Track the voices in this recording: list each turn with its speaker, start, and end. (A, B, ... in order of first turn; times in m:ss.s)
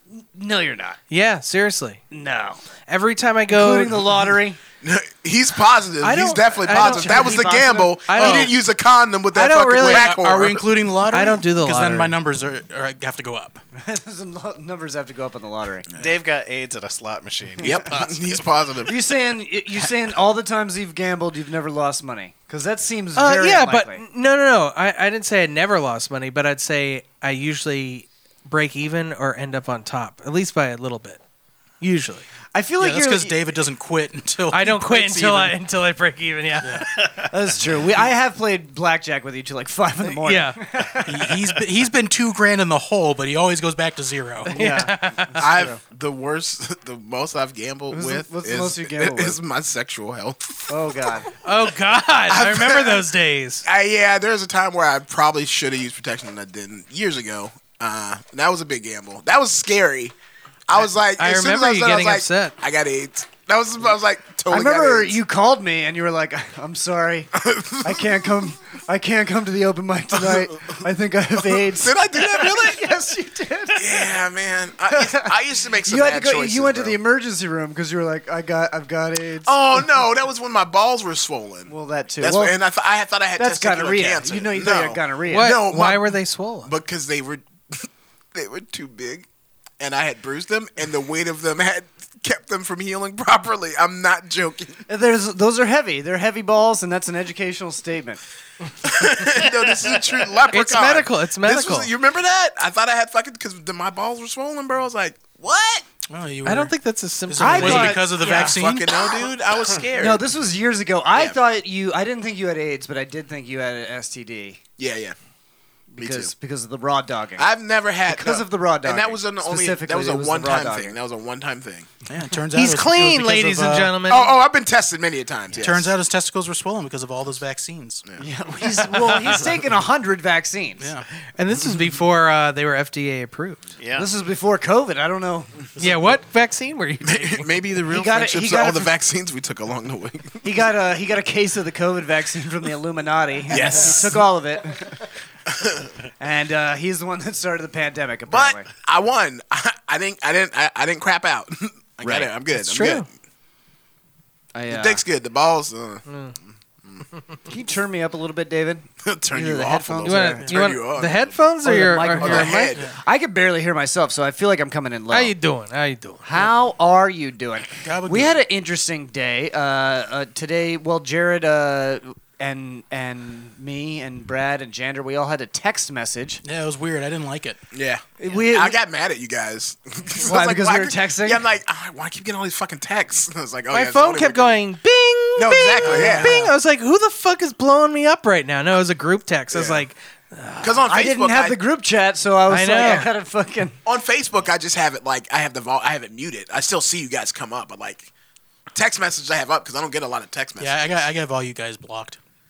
0:00.1-0:01.0 A
0:01.1-0:02.0 B
0:02.1-0:02.6 A
0:02.9-0:04.3 B
0:03.5-0:04.6 A
0:04.8-0:10.7 C
0:06.0-0:07.5 B
0:06.7-0:08.1 A
0:08.1-0:08.5 B
0:09.3-0:10.2 B
0:09.8-0:13.6 D
0:11.1-0:12.1 B
0:13.8-0:15.9 A
0:16.0-0:18.4 E
0:17.6-0:18.9 C
0:18.8-0:24.0 A
0:23.2-0:31.2 B
0:31.8-0:32.3 B
0:32.5-0:33.5 A
0:32.8-0:35.6 D
0:34.5-0:36.8 B
0:36.6-0:36.9 D
0:36.9-0:37.3 E
0:37.3-0:41.4 A
0:40.1-0:40.6 B
0:41.0-0:44.5 D
0:44.5-0:45.8 A
0:44.5-0:45.4 B
0:45.3-0:50.8 C
0:47.9-0:49.4 A
0:50.7-0:51.3 A
0:51.4-0:53.6 B
0:52.3-0:53.1 C
0:53.6-1:00.1 C
1:00.7-1:05.2 C
1:01.1-1:02.5 B
1:04.5-1:14.1 A
1:07.4-1:08.4 C
1:10.1-1:10.8 C
1:11.4-1:13.0 C
1:13.7-1:17.0 C
1:14.9-1:15.3 A
1:15.8-1:19.8 A
1:19.4-1:29.2 C
1:21.7-1:22.6 A
1:23.4-1:25.6 A
1:25.3-1:26.7 B
1:29.8-1:34.8 C
1:34.9-1:38.2 A
1:38.8-1:45.9 C
1:40.5-1:41.9 B
1:46.1-1:46.7 D
1:46.4-1:48.0 B
1:47.3-1:48.9 D
1:47.4-1:48.6 A
1:48.0-1:50.2 C
1:50.0-1:54.6 A
1:51.1-1:51.4 C
1:54.8-1:55.2 C
1:55.9-1:57.5 A
1:56.0-1:56.3 C
1:57.4-2:01.9 C
1:58.0-2:01.0 A
2:02.1-2:04.0 D
2:02.5-2:04.3 B
2:04.1-2:05.9 C
2:05.6-2:08.0 D
2:08.2-2:10.9 A
2:08.9-2:09.4 B
2:10.8-2:11.0 D
2:11.4-2:13.6 B
2:13.8-2:14.1 E
2:13.9-2:15.9 A
2:15.8-2:17.5 B
2:17.0-2:20.4 C
2:17.8-2:18.9 A
2:20.4-2:25.0 A
2:23.5-2:24.2 C
2:25.5-2:25.9 C
2:26.2-2:28.7 A
2:28.3-2:33.1 C
2:32.0-2:32.3 A
2:32.5-2:33.0 B
2:34.5-2:35.0 A
2:34.7-2:36.0 C
2:36.1-2:36.3 B
2:37.5-2:40.4 A
2:39.0-2:41.4 C
2:40.0-2:42.7 B
2:41.6-2:45.3 A
2:42.2-2:42.9 C
2:42.7-2:43.0 D
2:45.1-2:46.2 B
2:46.2-2:56.4 A
2:47.8-2:48.4 D
2:56.4-2:57.6 D
2:57.7-3:04.6 C
2:58.2-2:58.8 A
3:00.2-3:01.4 A
3:03.7-3:10.8 B
3:05.4-3:06.4 C
3:05.8-3:06.5 D
3:09.5-3:09.8 C
3:10.6-3:11.6 C
3:10.9-3:13.8 A
3:12.5-3:13.1 B
3:13.8-3:18.1 C
3:18.7-3:20.8 C
3:20.6-3:22.2 D